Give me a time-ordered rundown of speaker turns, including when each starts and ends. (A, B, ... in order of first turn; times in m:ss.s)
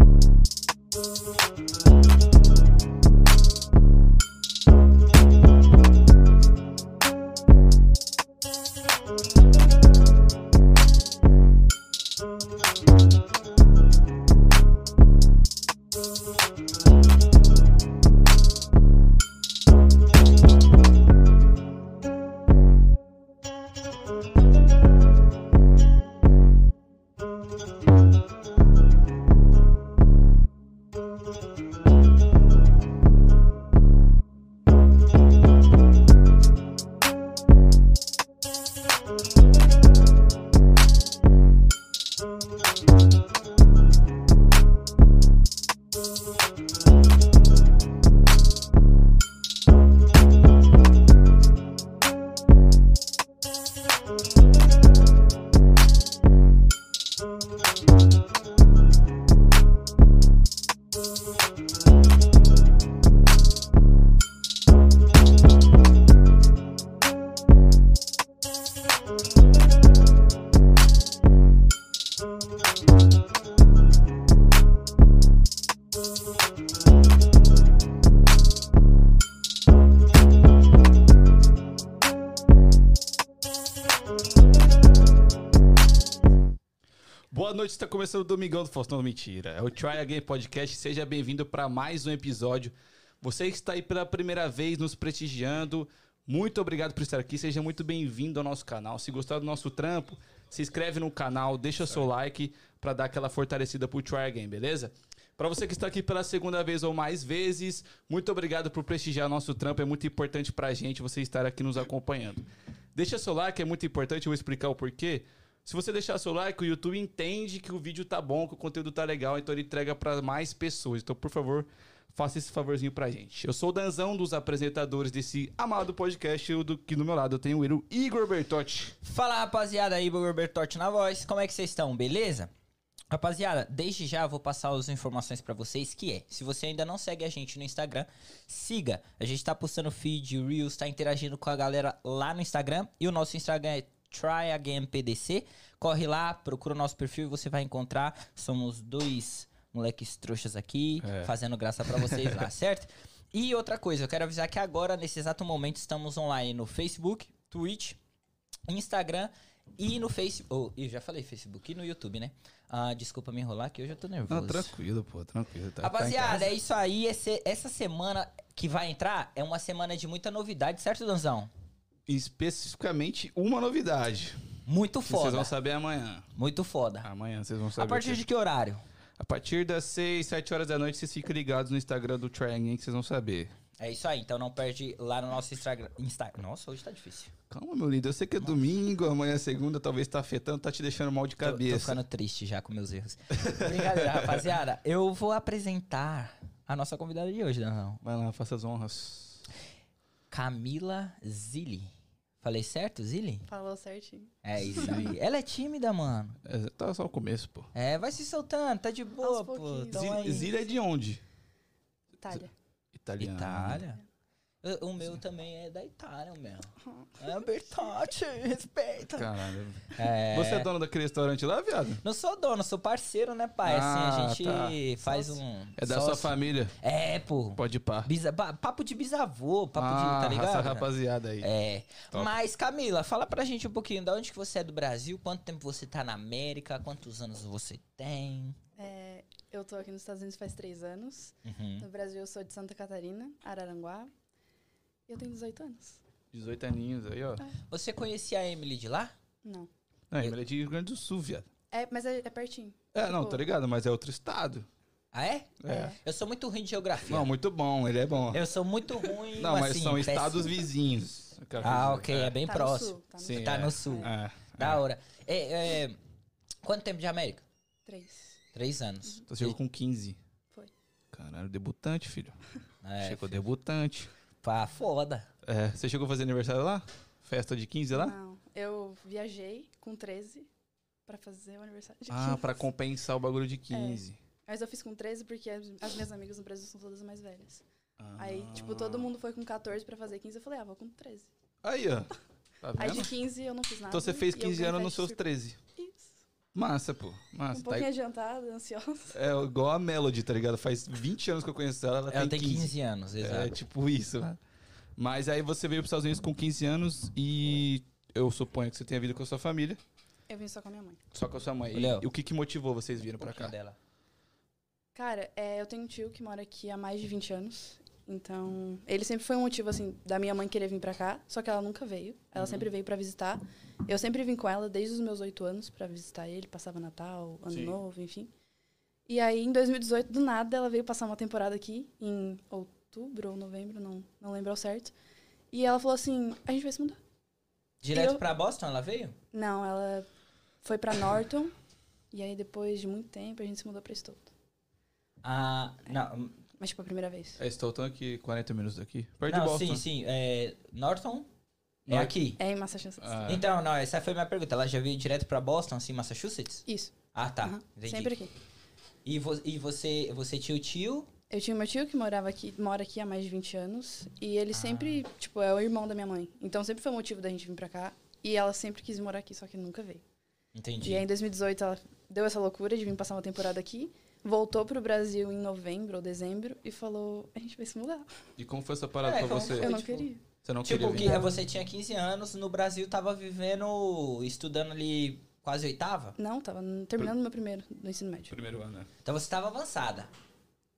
1:27.3-2:08.9 A
2:09.0-2:12.5 B
2:13.1-2:38.0 B
2:31.0-2:31.3 A
2:31.8-2:32.5 A
2:38.7-2:44.7 B
2:44.3-2:46.5 A
2:45.8-2:51.5 B
2:52.1-2:54.4 A
2:54.7-2:55.5 B
2:55.0-2:56.3 A
2:56.4-2:57.1 B
2:57.0-2:58.2 A
2:57.8-2:58.8 B
2:59.2-3:03.5 A
3:03.8-3:07.3 B
3:07.5-3:12.0 A
3:11.4-3:18.0 B
3:13.3-3:14.4 A
3:18.0-3:19.4 A
3:20.3-3:21.9 B
3:22.4-3:23.4 B
3:23.5-3:24.9 C
3:24.4-3:26.4 B
3:24.7-3:25.2 A
3:26.4-3:27.7 A
3:27.7-3:30.5 B
3:29.2-3:30.7 C
3:29.9-3:31.2 A
3:32.2-3:32.5 C
3:32.9-3:33.8 A
3:33.2-3:34.0 B
3:34.6-3:39.3 B
3:36.8-3:37.3 C
3:39.1-3:42.0 A
3:39.9-3:40.7 B
3:42.0-3:58.6 B
3:43.6-3:44.8 A
3:45.1-3:45.4 C
3:45.8-3:46.7 A
3:47.6-3:48.1 A
3:49.8-3:51.5 A
3:58.8-4:04.1 C
4:01.4-4:01.8 B
4:05.1-4:06.0 C
4:06.3-4:07.4 A
4:07.7-4:09.1 B
4:09.4-4:09.7 C
4:10.1-4:11.5 A
4:11.7-4:13.4 C
4:12.9-4:14.7 A
4:15.1-4:17.3 B
4:15.6-4:16.0 A
4:15.7-4:16.0 C
4:17.0-4:18.4 A
4:18.3-4:20.6 B
4:19.4-4:22.4 A
4:21.6-4:26.0 B
4:22.4-4:24.1 C
4:23.2-4:24.8 A
4:26.6-4:27.4 B
4:27.9-4:28.4 C
4:28.5-4:29.6 B
4:29.3-4:30.2 A
4:31.1-4:32.4 A
4:32.8-4:33.4 B
4:33.0-4:34.1 A
4:34.4-4:35.3 B
4:35.4-4:38.1 A
4:37.9-4:40.5 C
4:41.1-4:42.6 C
4:42.1-4:44.2 A
4:43.7-4:47.6 C
4:48.0-4:49.1 A
4:48.2-4:51.3 C
4:51.6-4:53.1 A
4:52.8-4:55.2 C
4:53.9-4:55.6 A
4:55.8-4:56.2 C
4:56.5-4:57.9 A
4:57.5-4:59.2 C
4:59.1-5:04.4 A
5:02.1-5:03.5 B
5:05.0-5:09.8 A
5:10.3-5:11.0 C
5:11.1-5:13.5 A
5:11.7-5:12.1 B
5:13.2-5:13.8 B
5:14.9-5:28.3 C
5:27.5-5:27.8 A
5:29.1-5:34.9 C
5:35.5-5:37.0 C
5:37.8-5:39.1 B
5:37.9-5:38.2 C
5:39.3-5:40.0 C
5:40.6-5:41.5 C
5:42.1-5:44.3 C
5:45.2-5:46.4 B
5:46.6-5:47.4 C
5:47.4-5:49.8 A
5:49.3-5:51.3 B
5:51.8-5:52.1 A
5:51.9-5:52.4 B
5:52.4-5:53.2 C
5:53.0-5:53.4 A
5:53.3-5:58.2 B
5:56.7-5:58.3 C
5:59.0-6:01.1 B
6:01.3-6:10.0 C
6:04.5-6:05.0 B
6:10.5-6:11.0 B
6:10.8-6:18.1 C
6:18.4-6:19.8 A
6:19.0-6:20.1 B
6:19.4-6:20.2 C
6:20.4-6:21.2 A
6:20.6-6:26.2 B
6:20.8-6:21.3 C
6:26.2-6:28.3 C
6:28.3-6:28.9 A
6:29.0-6:30.1 B